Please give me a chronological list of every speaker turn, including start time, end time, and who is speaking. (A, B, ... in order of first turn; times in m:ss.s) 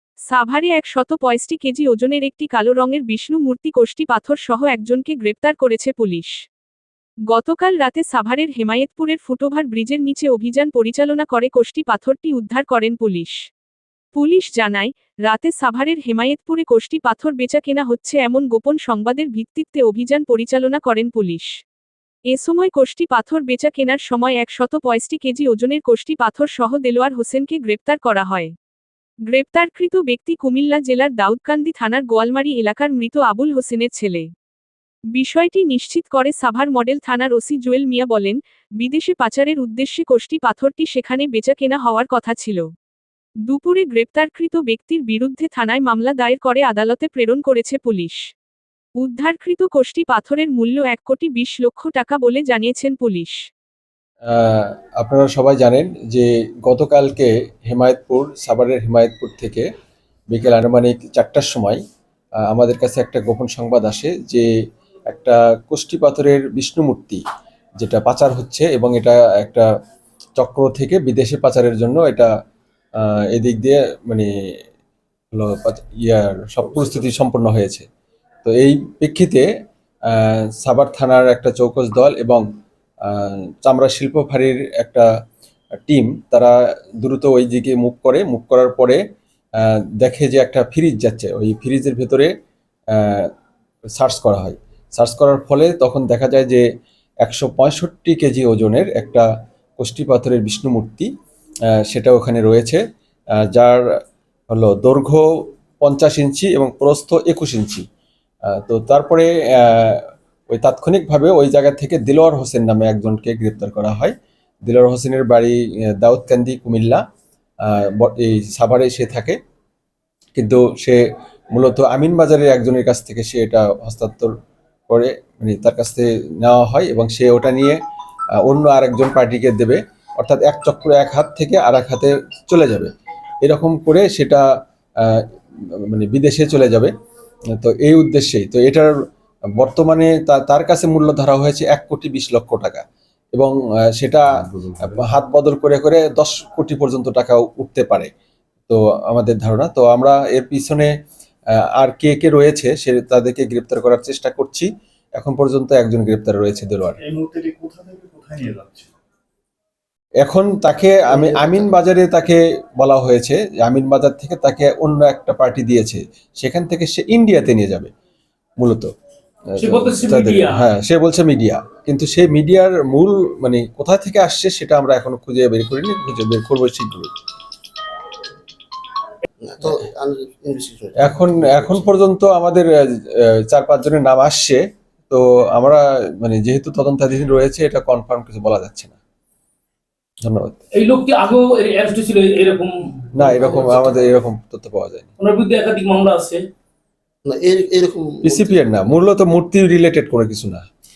0:00.3-0:06.3 A
0:07.3-0:13.4 A
0:14.2-0:21.5 A
0:22.3-0:28.5 A
0:29.3-0:34.3 A
0:35.1-0:42.7 A
0:43.5-0:48.2 A
0:49.0-0:53.4 A
0:54.3-0:59.7 B
1:00.3-1:01.8 B
1:02.4-1:04.5 B
1:05.1-1:07.2 B
1:07.8-1:09.7 B
1:10.4-1:12.3 B
1:13.0-1:14.3 B
1:15.3-1:17.9 B
1:18.4-1:19.5 B
1:20.1-1:22.4 B
1:23.0-1:25.1 B
1:25.8-1:29.0 B
1:29.6-1:32.3 B
1:32.9-1:33.3 B
1:34.0-1:36.6 B
1:37.2-1:39.3 B
1:39.8-1:41.1 B
1:41.7-1:42.8 B
1:43.4-1:43.8 B
1:44.5-1:45.3 B
1:45.8-1:47.8 B
1:48.5-1:54.1 B
1:54.6-1:57.0 B
1:57.6-1:59.4 B
2:00.4-2:01.0 B
2:01.5-2:04.3 B
2:04.9-2:07.8 B
2:08.4-2:12.9 B
2:13.4-2:14.4 B
2:15.0-2:16.9 B
2:17.6-2:18.9 B
2:19.6-2:22.8 B
2:23.3-2:28.1 B
2:28.7-2:30.9 B
2:31.6-2:37.0 B
2:37.0-2:38.9 C
2:40.2-2:47.9 B
2:41.1-2:41.7 D
2:48.6-2:48.9 B
2:49.5-2:57.1 B
2:49.6-2:50.6 E
2:59.4-3:01.9 D
3:01.0-3:09.0 B
3:10.2-3:10.6 B
3:10.8-3:13.5 E
3:13.2-3:15.1 B
3:13.5-3:14.0 D
3:15.2-3:16.4 E
3:17.2-3:18.8 D
3:18.2-3:20.6 B